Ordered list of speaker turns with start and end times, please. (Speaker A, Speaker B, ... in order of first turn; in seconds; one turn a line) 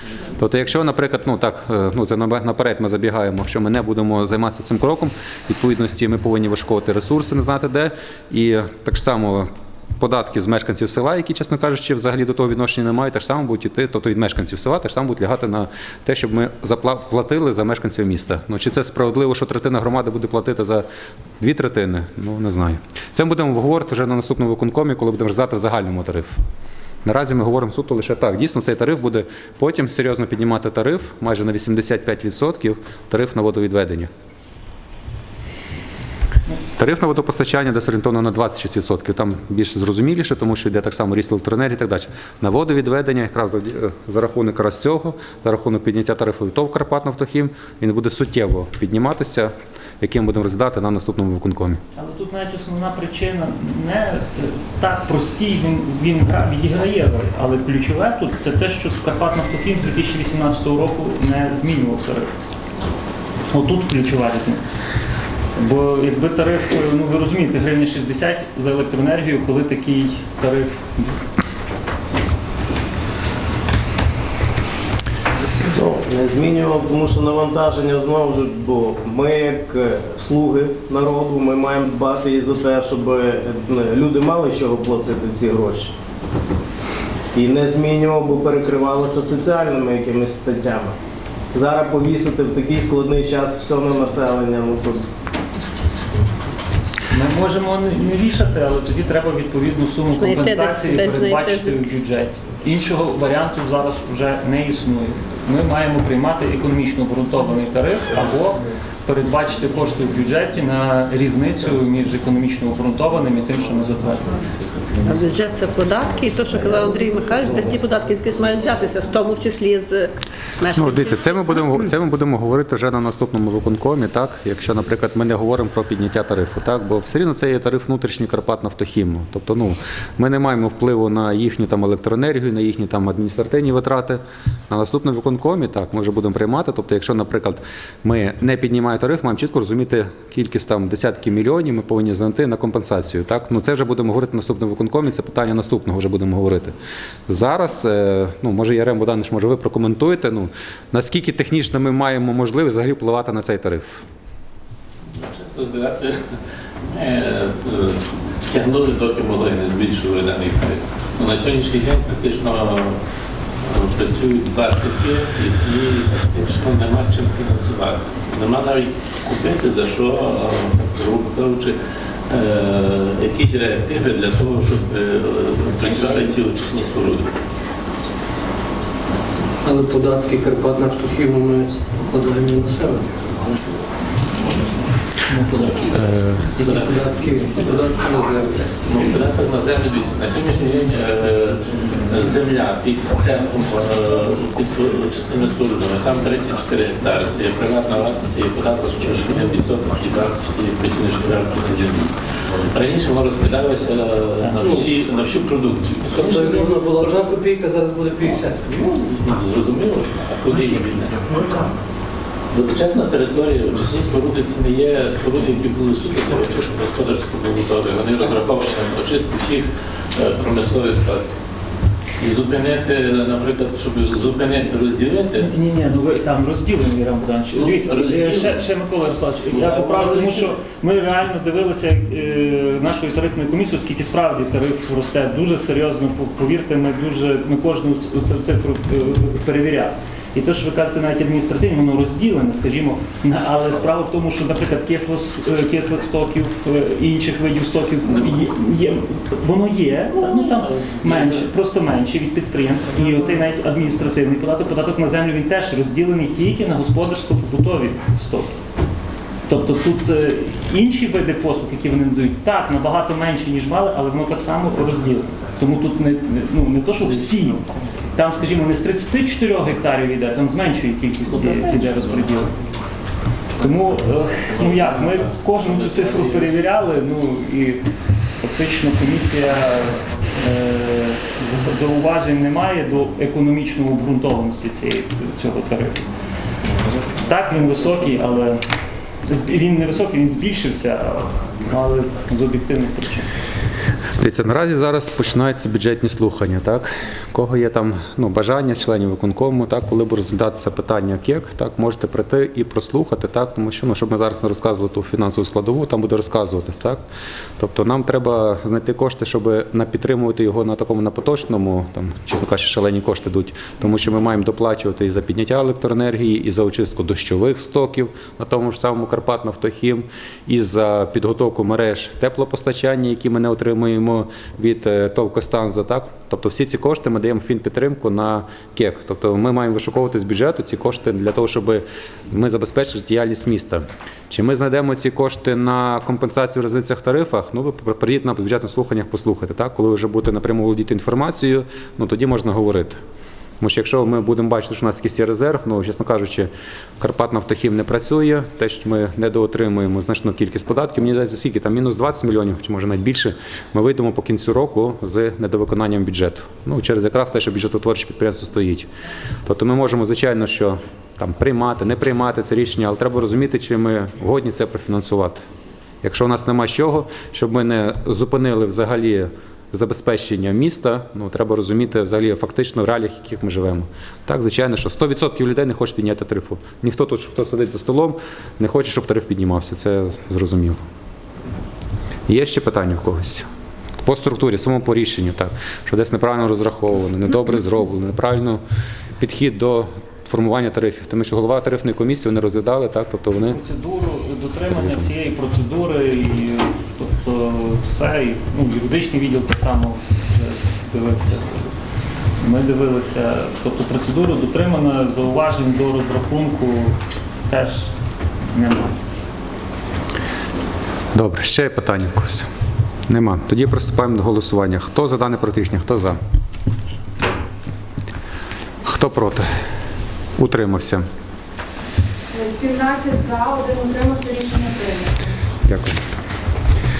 Speaker A: 0.3-20.9
Speaker A: 21.4-26.4
Speaker A: 27.0-34.1
Speaker A: 36.8-51.8
Speaker B: 52.0-62.3
Speaker B: 63.5-64.7
Speaker B: 65.5-71.2
Speaker C: 75.7-85.9
Speaker C: 87.3-90.9
Speaker C: 91.5-95.1
Speaker B: 97.1-114.6
Speaker D: 100.1-101.9
Speaker D: 115.0-121.8
Speaker A: 120.7-146.7
Speaker A: 147.3-154.1
Speaker E: 155.1-177.3
Speaker F: 179.6-183.4
Speaker E: 185.4-187.7
Speaker A: 186.0-186.4
Speaker F: 186.5-188.8
Speaker E: 188.7-207.3
Speaker F: 204.6-204.9
Speaker F: 206.1-208.7
Speaker E: 208.7-211.7
Speaker E: 212.5-221.3
Speaker E: 222.2-225.5
Speaker B: 225.4-258.6
Speaker E: 227.5-228.7
Speaker E: 229.6-230.5
Speaker E: 248.0-248.5
Speaker E: 250.1-251.5
Speaker E: 253.0-253.3
Speaker B: 259.4-272.5
Speaker E: 267.0-267.6
Speaker E: 271.3-272.4
Speaker B: 273.6-286.1
Speaker E: 274.5-276.6
Speaker B: 287.1-288.6
Speaker B: 289.3-293.3
Speaker A: 294.2-307.0
Speaker A: 307.6-343.0
Speaker A: 343.6-358.9
Speaker A: 359.4-365.4
Speaker A: 366.0-380.8
Speaker A: 382.3-383.5
Speaker A: 384.0-388.6
Speaker A: 389.2-393.6
Speaker B: 393.4-401.7
Speaker A: 394.7-395.0
Speaker B: 402.4-407.9
Speaker B: 408.5-408.9
Speaker A: 411.1-412.5
Speaker A: 413.1-416.2
Speaker A: 418.8-419.5
Speaker A: 420.4-421.0
Speaker G: 422.3-425.3
Speaker A: 425.7-426.0